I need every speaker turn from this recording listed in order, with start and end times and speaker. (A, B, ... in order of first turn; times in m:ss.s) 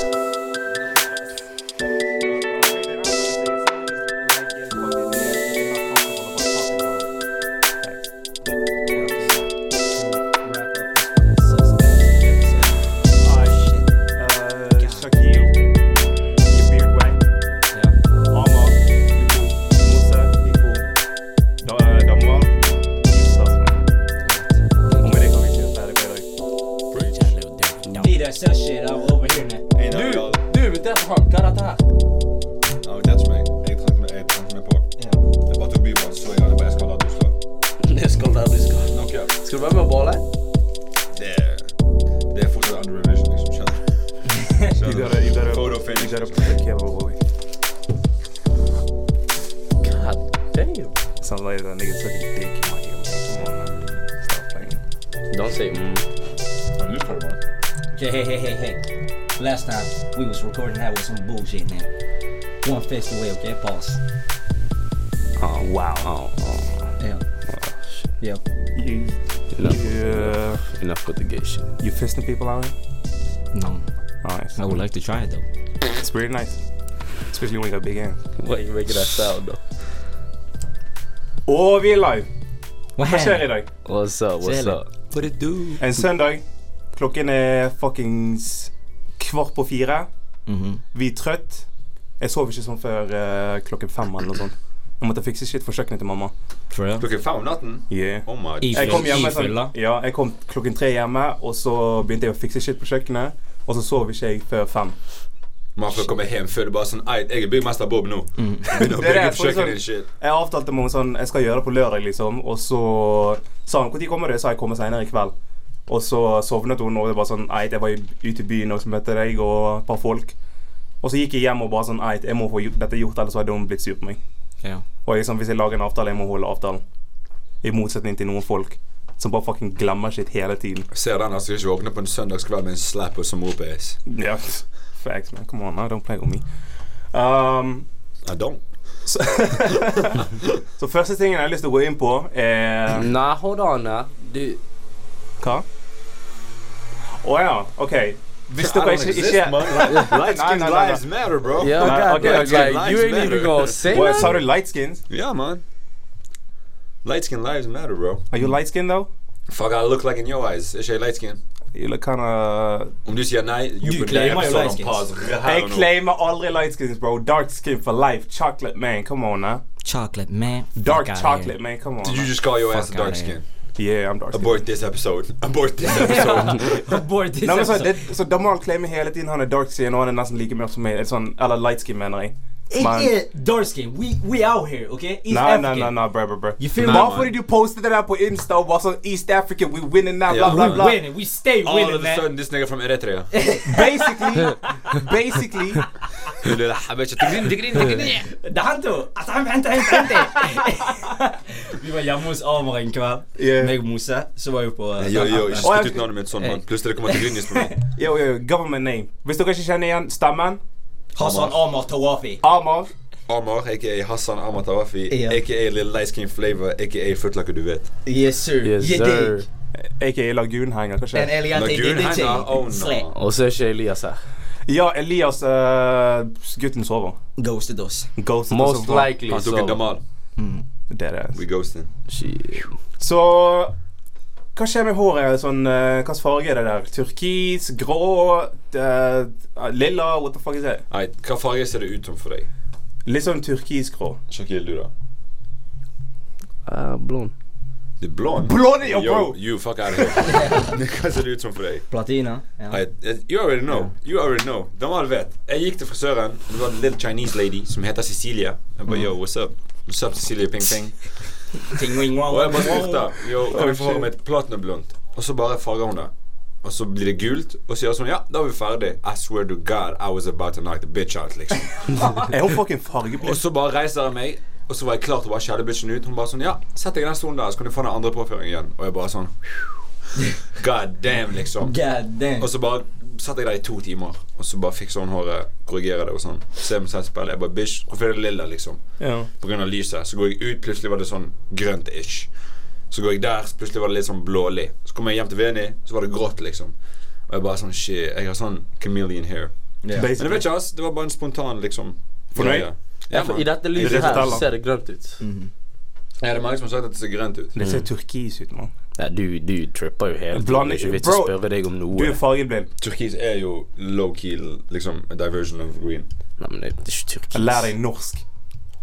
0:02.2-0:07.2 A
0:07.8-0:08.1 A
0:08.9-0:13.9 B
0:08.9-0:09.4 A
0:13.1-0:13.6 A
0:14.1-0:15.5 A
0:14.8-0:15.6 B
0:16.5-0:17.2 A
0:17.7-0:18.0 B
0:18.3-0:20.9 A
0:21.6-0:23.8 A
0:24.2-0:25.2 B
0:25.0-0:26.2 A
0:26.9-0:28.1 C
0:27.1-0:29.6 B
0:29.7-0:30.4 D
0:29.9-0:31.8 C
0:32.8-0:37.4 D
0:37.8-0:40.2 C
0:38.9-0:39.3 D
0:41.1-0:41.7 D
0:42.3-0:43.9 D
0:44.7-0:46.6 D
0:44.8-0:47.2 A
0:49.8-0:50.9 C
0:51.2-0:54.8 A
0:53.7-0:54.0 D
0:55.3-0:56.0 C
0:56.8-0:57.4 D
0:57.9-0:58.8 B
0:59.4-1:01.9 B
1:02.6-1:04.0 B
1:05.4-1:06.9 C
1:05.6-1:06.1 A
1:07.0-1:07.2 B
1:08.7-1:10.6 A
1:09.5-1:11.7 C
1:11.8-1:12.7 A
1:13.5-1:13.8 B
1:14.2-1:14.6 A
1:14.6-1:15.4 B
1:15.9-1:16.6 A
1:17.3-1:18.2 A
1:18.4-1:19.6 C
1:21.5-1:22.2 A
1:23.0-1:23.4 B
1:23.1-1:23.7 A
1:23.8-1:24.9 C
1:24.4-1:25.9 B
1:25.8-1:26.4 A
1:26.9-1:30.1 A
1:30.4-1:30.8 B
1:30.9-1:31.7 A
1:32.2-1:36.3 A
1:36.7-1:37.0 B
1:37.0-1:39.2 D
1:37.9-1:44.9 A
1:38.6-1:39.7 B
1:45.8-1:50.1 D
1:48.4-1:48.7 B
1:48.7-1:55.3 A
1:55.9-2:00.3 A
2:01.0-2:04.2 A
2:05.0-2:06.8 A
2:07.6-2:10.9 A
2:10.9-2:14.0 D
2:14.1-2:16.4 A
2:17.1-2:17.9 A
2:18.2-2:18.6 D
2:19.0-2:23.1 A
2:19.7-2:20.6 D
2:22.9-2:24.6 C
2:27.2-2:31.0 A
2:28.6-2:34.0 D
2:31.6-2:34.4 C
2:31.7-2:32.8 A
2:33.9-2:35.0 A
2:35.1-2:35.6 D
2:37.0-2:38.2 D
2:38.3-2:39.1 A
2:39.5-2:41.4 D
2:41.7-2:42.9 A
2:43.0-2:45.9 D
2:43.8-2:45.0 B
2:45.4-2:49.6 A
2:49.8-2:51.5 B
2:50.8-2:52.3 A
2:52.0-2:53.4 D
2:52.6-2:53.3 B
2:53.8-2:54.6 A
2:54.3-2:56.8 D
2:55.9-2:57.9 B
2:57.4-3:03.1 A
3:02.7-3:06.0 B
3:05.3-3:11.0 A
3:06.6-3:07.2 B
3:06.8-3:07.3 D
3:10.3-3:10.9 D
3:10.5-3:12.2 B
3:11.6-3:13.3 D
3:13.3-3:15.0 B
3:13.6-3:15.8 A
3:16.4-3:18.3 D
3:18.2-3:27.8 B
3:23.4-3:23.7 A
3:25.0-3:27.8 D
3:25.6-3:26.1 A
3:27.9-3:30.6 A
3:31.2-3:32.4 B
3:31.2-3:31.6 A
3:32.4-3:32.9 A
3:33.3-3:37.9 D
3:35.1-3:35.4 B
3:38.0-3:39.4 B
3:38.6-3:39.4 C
3:39.8-3:41.3 A
3:41.1-3:43.1 B
3:41.5-3:43.2 D
3:43.1-3:44.2 C
3:44.7-3:47.2 A
3:47.4-3:48.1 B
3:48.2-3:49.1 A
3:48.5-3:49.8 C
3:49.3-3:50.0 D
3:50.4-3:50.6 B
3:50.9-3:51.4 A
3:51.3-3:51.9 D
3:52.1-3:52.7 C
3:53.0-3:53.7 A
3:54.6-4:00.8 A
4:00.9-4:02.5 D
4:03.0-4:04.2 A
4:04.3-4:04.9 D
4:06.6-4:07.3 C
4:08.0-4:11.8 D
4:08.4-4:09.4 A
4:10.2-4:10.7 B
4:11.9-4:12.8 B
4:12.7-4:21.2 D
4:21.6-4:23.1 B
4:22.3-4:26.1 D
4:23.5-4:24.1 A
4:26.6-4:31.8 D
4:31.9-4:32.2 B
4:32.2-4:33.4 A
4:33.2-4:39.8 D
4:40.5-4:41.8 D
4:41.6-4:42.5 B
4:42.4-4:48.8 D
4:49.0-4:49.3 A
4:49.3-4:52.3 D
4:52.9-4:56.7 D
4:57.3-4:59.5 D
4:59.9-5:00.5 A
5:00.2-5:04.4 D
5:02.3-5:02.7 A
5:03.1-5:05.2 C
5:03.8-5:04.4 A
5:05.2-5:05.5 B
5:06.2-5:07.5 D
5:07.5-5:08.7 A
5:07.6-5:07.8 C
5:09.0-5:12.2 C
5:10.3-5:11.4 A
5:11.9-5:12.7 A
5:12.8-5:16.1 D
5:16.4-5:17.7 C
5:17.3-5:18.2 A